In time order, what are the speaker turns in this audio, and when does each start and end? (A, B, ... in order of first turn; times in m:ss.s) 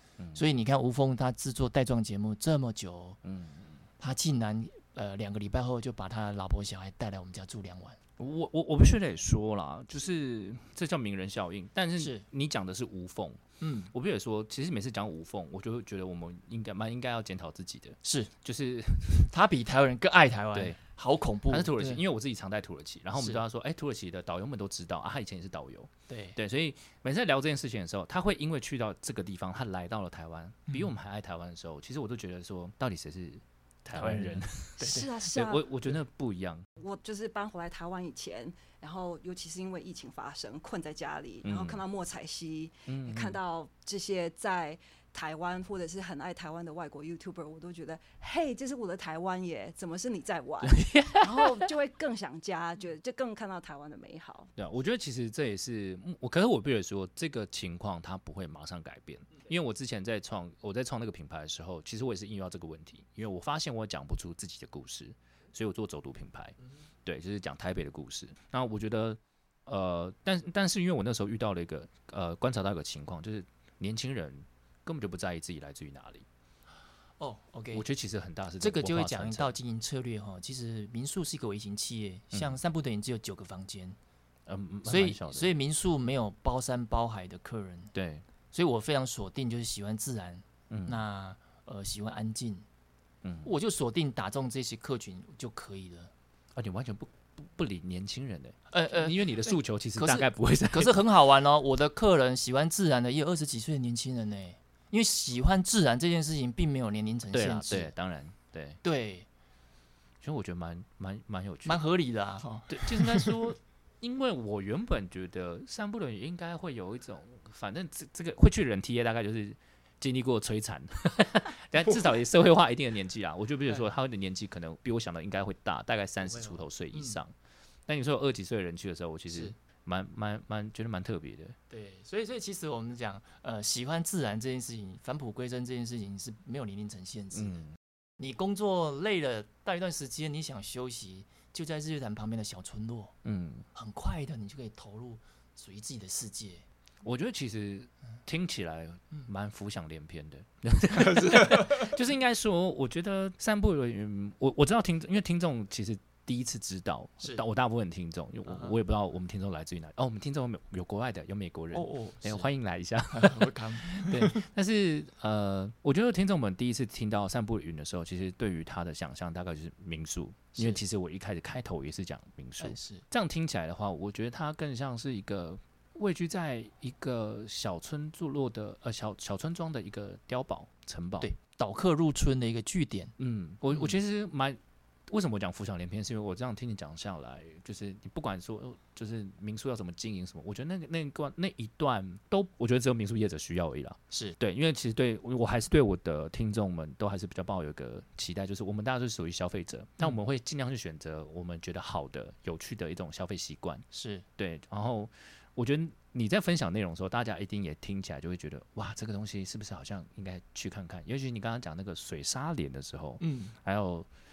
0:00.2-0:00.4 A
0:00.3-0:03.2 B
0:03.2-0:03.8 A
0:04.0-0:08.0 B
0:08.2-0:13.4 A
0:12.0-0:12.2 B
0:13.6-0:13.9 B
0:13.9-0:19.3 A
0:18.0-0:18.3 B
0:19.3-0:22.0 B
0:20.5-0:20.8 A
0:21.5-0:36.6 A
0:23.2-0:23.4 B
0:26.1-0:26.4 B
0:33.9-0:35.1 B
0:34.8-0:35.7 C
0:36.8-0:54.5 C
0:41.4-0:41.8 A
0:42.9-0:43.4 A
0:50.6-0:51.7 A
0:54.6-1:16.3 A
1:17.2-1:17.8 B
1:17.7-1:19.6 A
1:18.6-1:24.0 B
1:22.3-1:22.6 A
1:24.4-1:25.5 A
1:24.8-1:27.9 B
1:27.9-1:28.3 A
1:28.5-1:32.6 B
1:30.7-1:31.0 A
1:33.2-1:33.5 A
1:33.4-1:36.1 B
1:36.6-1:41.0 A
1:38.7-1:47.9 B
1:47.3-1:48.8 A
1:48.8-1:49.3 B
1:50.2-1:51.8 A
1:51.6-1:53.5 B
1:52.7-2:07.3 A
2:06.2-2:07.2 B
2:07.9-2:11.6 A
2:09.3-2:09.6 B
2:11.7-2:17.6 B
2:17.3-2:17.7 A
2:18.2-2:23.1 B
2:23.2-2:23.7 A
2:23.7-2:26.6 B
2:27.0-3:01.3 A
2:31.1-2:31.8 B
2:38.5-2:38.7 B
2:41.7-2:42.5 B
2:43.1-2:44.4 B
2:50.6-2:50.8 B
2:52.6-2:53.0 B
3:01.2-3:03.1 B
3:03.2-3:23.8 A
3:14.1-3:14.4 B
3:23.9-3:24.2 B
3:24.4-3:34.1 A
3:33.2-3:33.6 B